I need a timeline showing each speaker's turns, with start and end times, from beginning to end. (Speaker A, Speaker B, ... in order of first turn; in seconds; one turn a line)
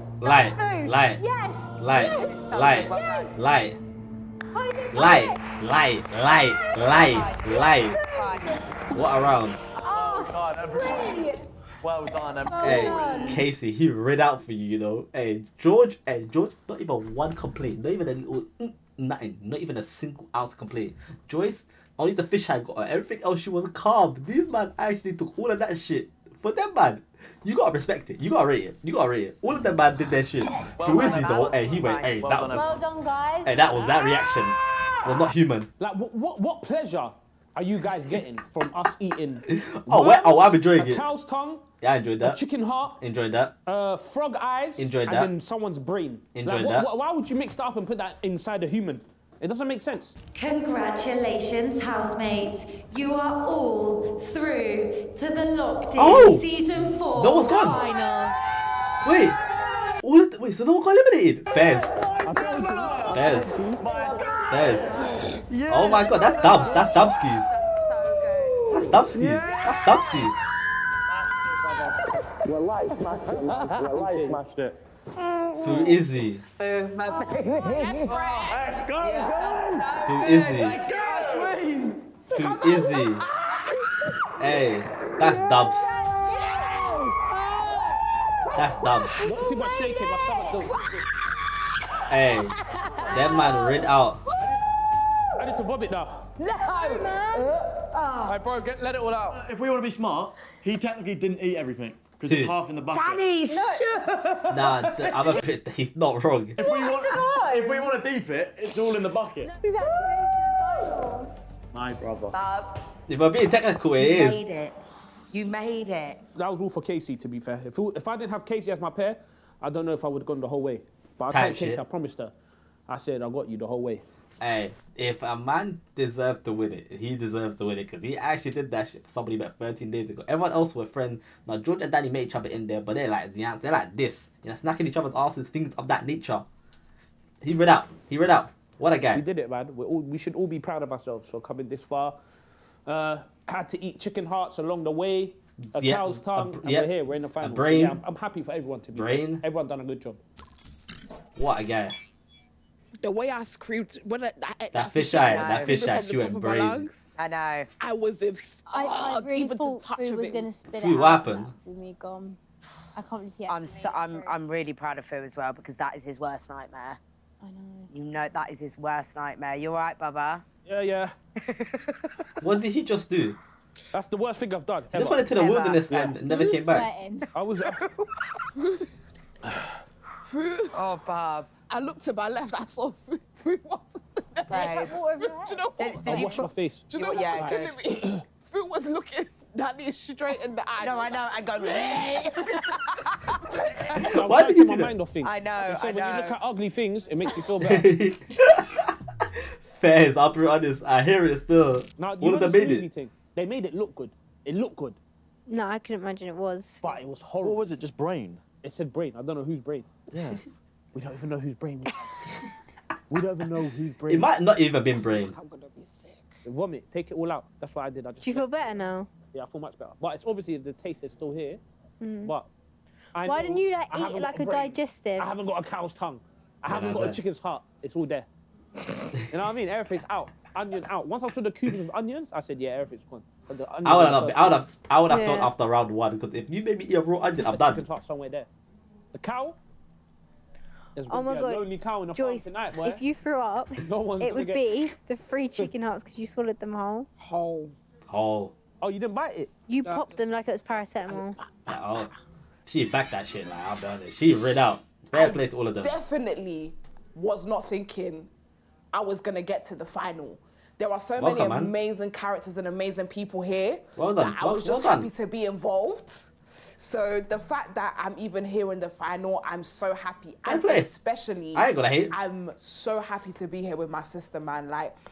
Speaker A: 0.2-1.2
Speaker B: 0.2-3.4
Speaker A: 1.8-3.8
Speaker C: 2.0-3.4
Speaker B: 4.5-8.7
Speaker A: 4.9-8.0
Speaker C: 6.7-8.6
Speaker A: 8.9-9.6
Speaker B: 9.8-11.5
Speaker D: 9.8-13.4
Speaker B: 12.2-13.4
Speaker A: 12.6-32.8
Speaker D: 30.7-32.9
Speaker C: 30.8-32.2
Speaker B: 32.5-34.2
Speaker A: 33.4-35.7
Speaker E: 35.8-41.6
Speaker A: 39.5-41.1
Speaker A: 41.8-42.4
Speaker E: 42.2-43.0
Speaker A: 43.0-43.5
Speaker E: 43.6-50.1
Speaker A: 44.8-45.3
Speaker A: 46.3-46.9
Speaker F: 50.3-58.3
Speaker A: 56.0-56.5
Speaker A: 57.1-57.8
Speaker C: 57.6-58.2
Speaker A: 59.0-59.4
Speaker A: 60.0-61.9
Speaker D: 61.5-67.2
Speaker E: 62.2-63.8
Speaker A: 63.1-63.6
Speaker C: 63.9-65.1
Speaker A: 64.5-65.0
Speaker A: 65.7-67.5
Speaker G: 65.7-66.8
Speaker C: 66.2-68.8
Speaker D: 68.5-69.0
Speaker A: 68.7-70.4
Speaker G: 69.1-69.4
Speaker C: 69.5-70.3
Speaker C: 71.1-72.0
Speaker D: 72.4-74.8
Speaker G: 73.0-73.4
Speaker E: 73.2-74.4
Speaker A: 75.6-76.4
Speaker C: 76.4-81.1
Speaker H: 77.9-78.6
Speaker D: 78.4-81.6
Speaker A: 80.0-80.8
Speaker G: 80.3-83.2
Speaker A: 82.3-83.2
Speaker A: 84.4-86.0
Speaker C: 87.3-88.0
Speaker A: 88.5-89.2
Speaker E: 89.2-90.8
Speaker B: 89.4-89.7
Speaker C: 90.6-90.9
Speaker A: 92.1-92.6
Speaker C: 92.1-94.3
Speaker A: 93.1-94.2
Speaker E: 95.3-96.2
Speaker C: 96.4-98.4
Speaker B: 96.5-97.5
Speaker G: 98.2-99.4
Speaker D: 99.3-103.2
Speaker A: 102.3-102.5
Speaker C: 102.9-105.4
Speaker B: 103.5-103.8
Speaker A: 104.5-106.6
Speaker D: 106.5-109.5
Speaker B: 106.6-108.0
Speaker B: 109.4-111.3
Speaker D: 111.7-112.4
Speaker C: 112.3-112.8
Speaker A: 113.1-114.4
Speaker C: 114.0-114.8
Speaker C: 115.3-116.2
Speaker E: 116.3-122.3
Speaker A: 121.3-121.8
Speaker E: 122.9-124.0
Speaker A: 124.4-136.4
Speaker A: 137.4-139.2
Speaker E: 139.1-142.2
Speaker E: 142.8-150.2
Speaker A: 145.7-148.0
Speaker A: 148.9-149.4
Speaker A: 151.3-151.9
Speaker H: 153.0-157.0
Speaker A: 154.7-156.9
Speaker C: 155.2-155.8
Speaker C: 157.2-157.7
Speaker H: 157.8-160.5
Speaker B: 158.7-162.4
Speaker A: 160.7-161.5
Speaker B: 162.9-164.3
Speaker C: 163.5-167.0
Speaker B: 167.4-167.9
Speaker C: 167.9-170.4
Speaker E: 170.7-171.1
Speaker C: 171.4-172.4
Speaker A: 172.4-173.4
Speaker E: 173.9-175.2
Speaker A: 174.9-176.9
Speaker C: 175.3-176.6
Speaker B: 176.2-177.2
Speaker C: 177.2-178.4
Speaker E: 177.3-177.8
Speaker H: 178.6-178.9
Speaker H: 180.2-180.8
Speaker C: 180.7-181.5
Speaker H: 181.7-192.7
Speaker C: 184.5-185.0
Speaker B: 184.5-185.7
Speaker C: 185.8-187.6
Speaker E: 186.0-188.2
Speaker C: 190.8-194.0
Speaker H: 193.4-194.0
Speaker E: 194.0-197.9
Speaker A: 194.1-194.9
Speaker C: 195.2-196.4
Speaker A: 197.6-202.9
Speaker E: 202.0-205.0
Speaker B: 205.5-206.9
Speaker E: 206.8-207.6
Speaker D: 207.4-208.4
Speaker E: 208.6-209.9
Speaker D: 210.1-210.4
Speaker E: 210.9-212.3
Speaker E: 213.1-214.3
Speaker A: 214.1-215.3
Speaker H: 215.0-216.4
Speaker E: 216.4-218.6
Speaker B: 218.2-219.1
Speaker E: 219.3-221.6
Speaker B: 222.0-222.3
Speaker E: 223.1-228.3
Speaker B: 223.2-225.3
Speaker A: 226.6-227.2
Speaker E: 229.2-234.6
Speaker A: 233.8-237.8
Speaker B: 235.1-235.5
Speaker E: 237.5-238.5
Speaker E: 239.1-239.6
Speaker E: 240.9-243.0
Speaker B: 241.1-247.1
Speaker E: 243.8-244.7
Speaker H: 247.2-247.7
Speaker A: 248.1-248.5
Speaker E: 248.8-249.5
Speaker B: 249.7-251.4
Speaker H: 249.8-252.1
Speaker A: 251.7-252.1
Speaker A: 252.7-255.9
Speaker H: 255.1-258.3
Speaker H: 258.9-274.9
Speaker A: 261.2-261.7
Speaker A: 264.0-265.1
Speaker A: 270.4-270.9
Speaker A: 271.5-272.1